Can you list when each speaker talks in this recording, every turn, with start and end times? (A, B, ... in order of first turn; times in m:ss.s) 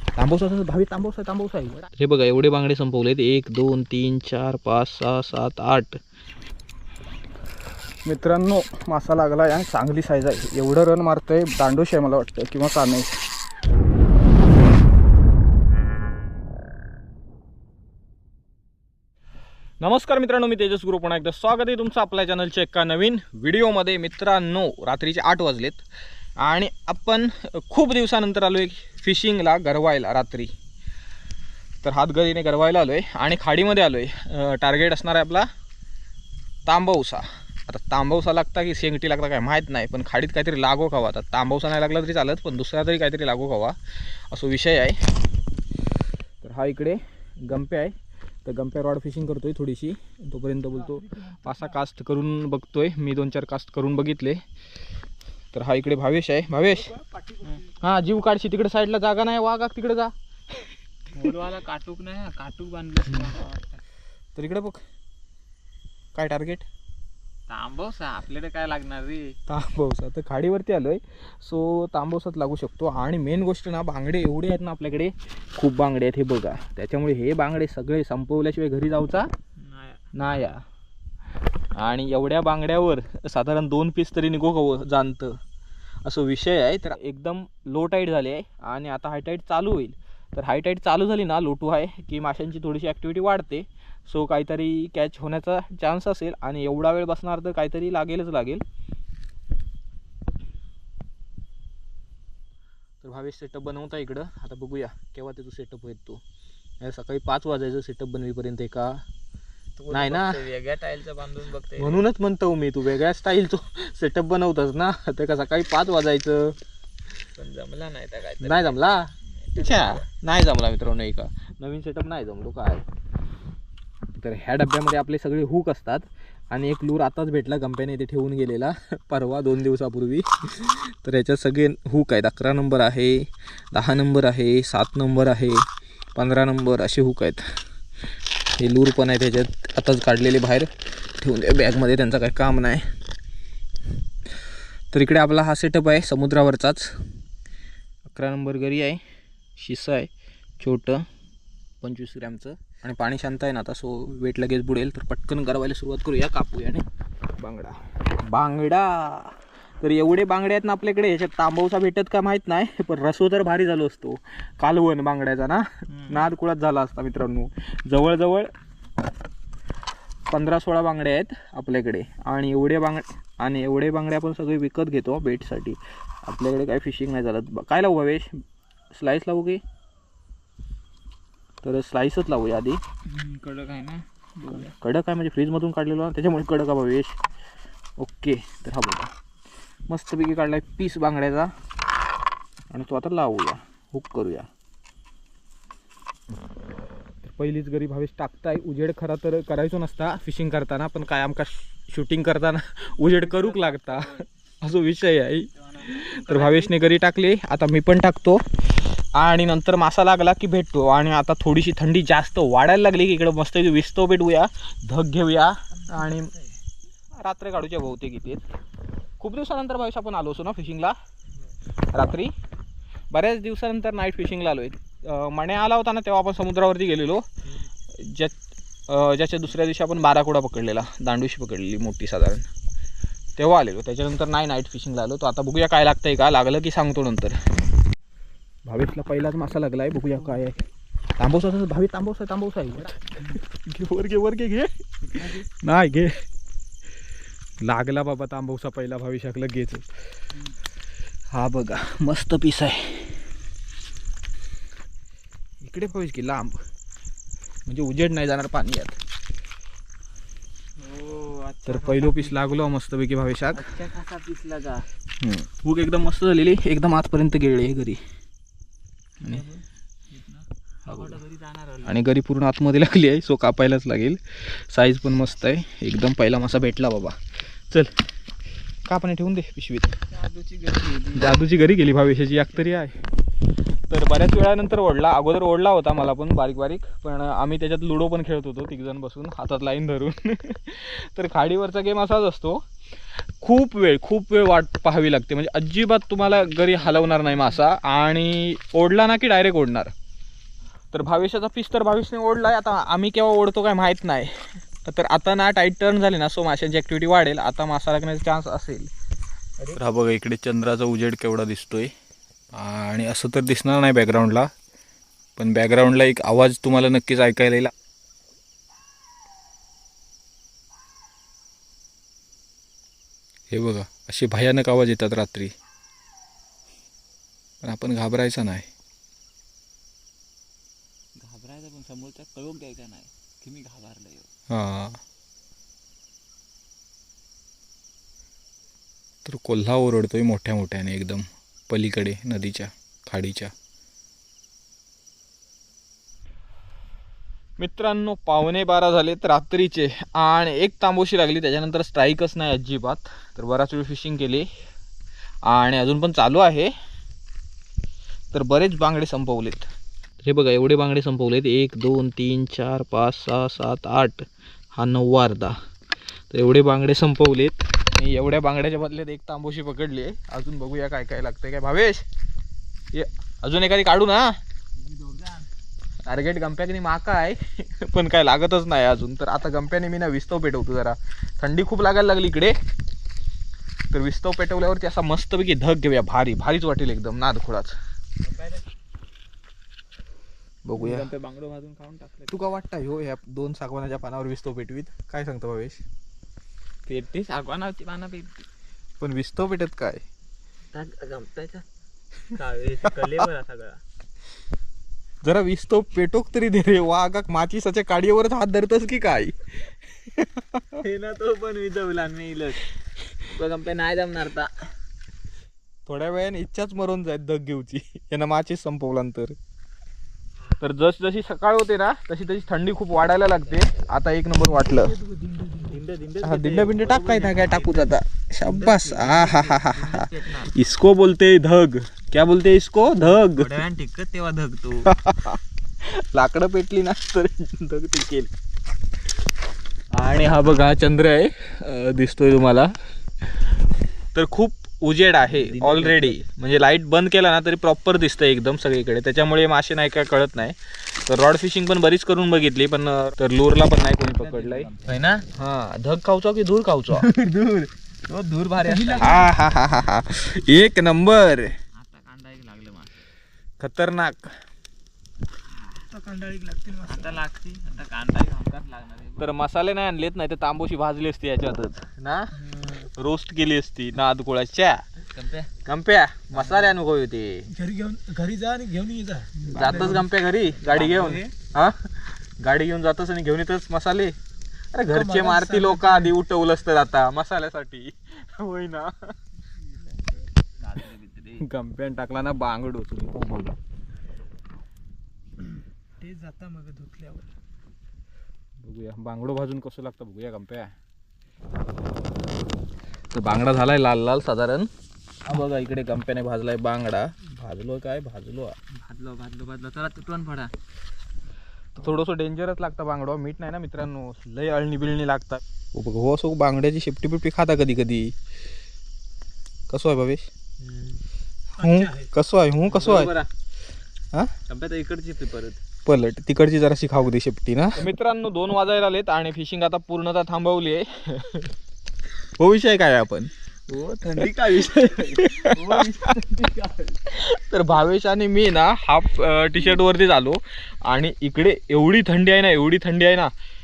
0:00.2-0:06.0 A
0:08.0-0:13.1 A
0:19.8-0:25.8 A
0:26.4-0:30.5 A
0:31.8-0:35.5 A
0:36.6-0:43.8 A
0:44.3-0:45.0 A
0:46.4-0:54.4 A
0:55.5-0:57.0 A
0:57.6-1:00.7 A
1:01.1-1:03.8 B
1:04.3-1:04.8 A
1:06.1-1:06.7 A
1:07.5-1:09.4 B
1:09.5-1:19.3 A
1:19.6-1:20.0 B
1:20.2-1:20.6 A
1:21.7-1:25.4 A
1:26.0-1:38.6 A
1:43.0-1:46.2 A
1:46.8-1:49.0 A
1:49.8-1:52.0 B
1:49.9-1:50.4 A
1:51.8-1:56.6 A
1:57.3-2:00.0 B
1:58.4-2:02.8 A
2:04.1-2:15.6 A
2:16.2-2:17.5 A
2:18.6-2:22.8 A
2:24.9-2:26.9 A
2:28.0-2:29.0 A
2:29.6-2:31.0 A
2:31.8-2:36.8 A
2:37.4-2:48.5 A
2:50.3-2:58.3 A
2:58.9-2:59.6 A
3:01.6-3:02.8 A
3:03.1-3:04.7 B
3:04.5-3:07.2 A
3:08.0-3:09.1 A
3:09.9-3:11.5 A
3:12.7-3:14.5 A
3:17.2-3:28.4 A
3:23.2-3:24.2 B
3:25.8-3:26.7 B
3:29.1-3:36.4 A
3:37.2-3:38.4 A
3:39.2-3:41.0 A
3:41.9-3:42.3 A
3:43.1-3:47.2 A
3:47.9-3:48.4 A
3:48.9-3:52.5 A
3:53.4-3:57.4 A
3:58.6-4:00.6 A
4:01.2-4:06.2 A
4:07.6-4:09.8 A
4:11.3-4:13.2 A
4:15.6-4:16.6 A
4:17.7-4:19.0 A
4:20.8-4:22.4 B
4:21.6-4:23.7 A
4:23.5-4:24.9 B
4:25.2-4:28.0 A
4:29.2-4:32.0 B
4:30.9-4:31.2 A
4:31.8-4:37.2 A
4:38.9-4:40.0 A
4:40.1-4:41.4 B
4:41.1-4:43.0 A
4:43.9-4:52.6 A
4:53.4-4:59.9 A
5:00.9-5:08.9 A
5:09.7-5:11.9 A
5:12.5-5:14.5 A
5:15.4-5:17.7 A
5:23.5-5:25.5 A
5:27.6-5:28.7 A
5:31.2-5:34.3 B
5:34.5-5:35.0 A
5:39.2-5:43.5 A
5:47.6-5:54.5 A
5:55.4-5:56.7 A
5:58.3-5:59.7 A
6:00.2-6:05.6 A
6:06.3-6:12.0 A
6:12.9-6:14.4 A
6:16.0-6:22.6 A
6:23.9-6:27.8 A
6:28.2-6:28.6 B
6:30.6-6:31.1 A
6:30.8-6:32.3 B
6:32.3-6:35.8 A
6:36.9-6:38.5 B
6:39.0-6:40.0 A
6:40.7-6:41.6 B
6:42.2-6:43.8 B
6:45.2-6:50.7 A
6:50.8-6:54.5 B
6:55.9-6:59.4 A
7:00.6-7:05.0 A
7:03.5-7:03.8 B
7:05.4-7:10.6 B
7:06.2-7:13.6 A
7:13.0-7:14.9 B
7:14.8-7:18.3 A
7:19.9-7:22.7 A
7:24.1-7:34.7 A
7:25.3-7:26.2 B
7:34.0-7:35.3 B
7:35.3-7:37.1 A
7:36.9-7:39.3 B
7:39.0-7:41.5 A
7:41.7-7:42.9 B
7:43.6-7:44.3 A
7:45.6-7:45.9 B
7:45.9-7:46.9 C
7:46.8-7:49.3 B
7:49.2-7:54.8 A
7:52.3-7:52.9 B
7:55.1-7:55.5 B
7:55.6-7:57.5 A
7:56.3-7:56.8 B
7:57.5-7:59.4 C
7:59.4-8:04.1 A
7:59.5-8:00.0 B
8:00.6-8:01.3 B
8:04.7-8:09.1 A
8:04.9-8:06.1 C
8:10.6-8:11.4 B
8:11.4-8:13.6 A
8:16.0-8:17.3 C
8:18.6-8:20.7 A
8:23.1-8:24.7 A
8:25.2-8:28.6 A
8:28.7-8:30.5 B
8:31.7-8:38.1 A
8:39.7-8:40.3 A
8:40.6-8:41.0 B
8:41.5-8:43.1 A
8:42.7-8:43.3 B
8:44.5-8:45.6 B
8:45.8-8:51.5 A
8:52.2-8:53.3 A
8:53.7-8:57.0 B
8:54.2-8:56.1 A
8:57.0-9:03.3 A